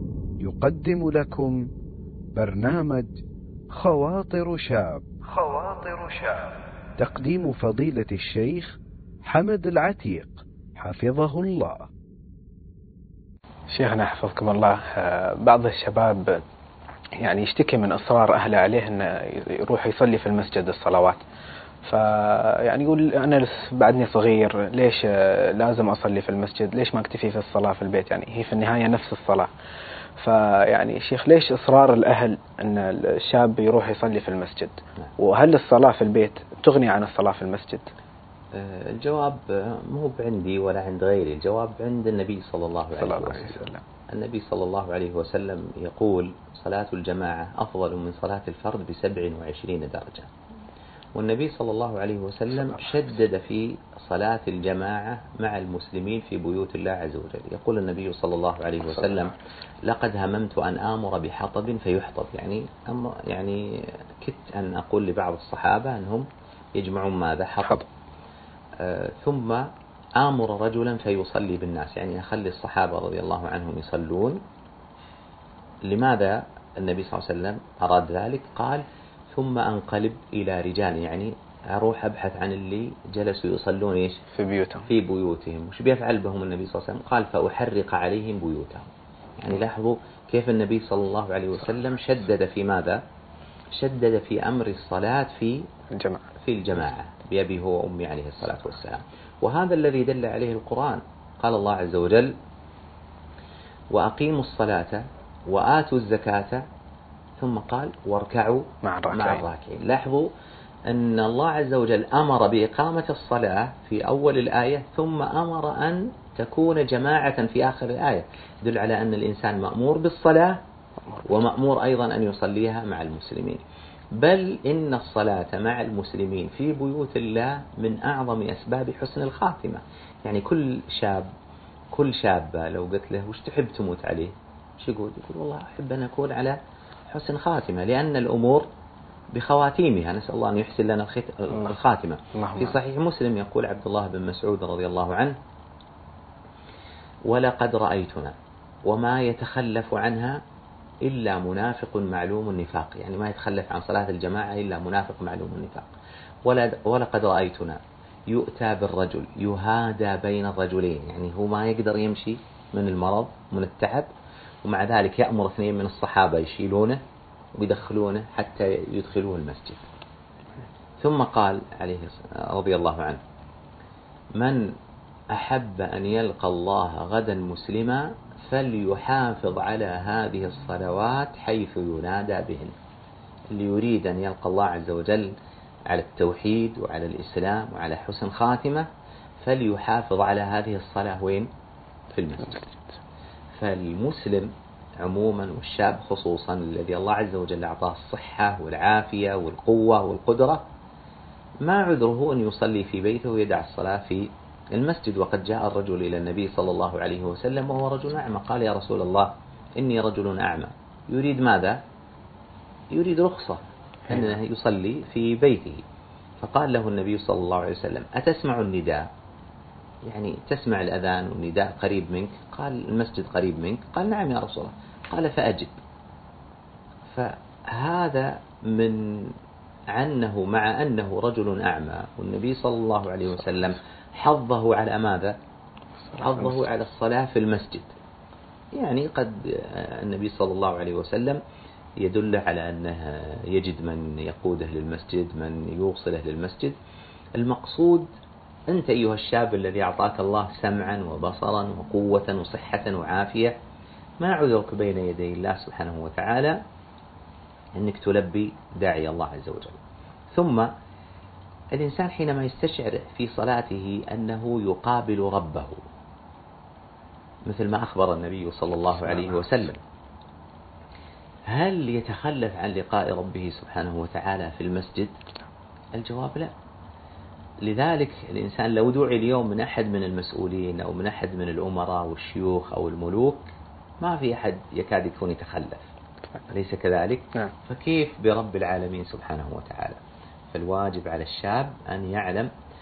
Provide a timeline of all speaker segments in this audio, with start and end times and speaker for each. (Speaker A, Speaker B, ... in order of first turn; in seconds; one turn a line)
Speaker A: 0.4-1.7
Speaker A: 2.4-11.9
Speaker B: 13.7-16.4
Speaker B: 17.2-21.2
Speaker B: 21.8-29.5
Speaker B: 30.2-37.9
Speaker C: 38.5-50.3
Speaker B: 43.0-43.8
Speaker C: 51.1-63.6
Speaker C: 64.2-67.9
Speaker C: 68.8-69.7
Speaker C: 70.2-74.4
Speaker C: 75.9-84.2
Speaker B: 84.3-84.9
Speaker C: 84.8-93.0
Speaker C: 93.7-95.7
Speaker B: 95.9-96.2
Speaker C: 96.4-102.3
Speaker C: 103.9-106.6
Speaker C: 107.4-110.3
Speaker B: 108.8-109.4
Speaker C: 110.9-120.6
Speaker C: 121.2-123.6
Speaker C: 124.2-131.3
Speaker C: 131.9-136.6
Speaker C: 137.1-138.7
Speaker C: 139.3-145.4
Speaker B: 142.4-142.8
Speaker C: 147.3-148.3
Speaker C: 148.9-150.4
Speaker C: 151.0-155.9
Speaker C: 156.5-164.1
Speaker C: 164.6-167.0
Speaker C: 167.6-169.8
Speaker C: 171.0-173.2
Speaker C: 174.4-174.7
Speaker C: 175.3-182.7
Speaker C: 183.5-185.3
Speaker C: 185.9-188.9
Speaker C: 189.4-191.5
Speaker C: 192.1-192.8
Speaker C: 193.6-200.7
Speaker C: 201.6-211.8
Speaker C: 212.9-215.8
Speaker C: 216.4-219.1
Speaker C: 220.1-225.7
Speaker C: 227.1-229.3
Speaker C: 229.9-235.4
Speaker B: 236.1-236.6
Speaker C: 236.2-237.9
Speaker C: 238.7-241.4
Speaker C: 242.0-246.8
Speaker C: 247.4-248.1
Speaker C: 248.7-253.5
Speaker C: 254.2-256.6
Speaker C: 257.8-259.8
Speaker C: 260.3-260.7
Speaker C: 261.7-265.8
Speaker C: 267.5-269.8
Speaker C: 271.5-275.1
Speaker C: 275.9-276.5
Speaker C: 277.6-283.5
Speaker C: 284.0-285.9
Speaker C: 286.5-290.0
Speaker C: 290.5-292.5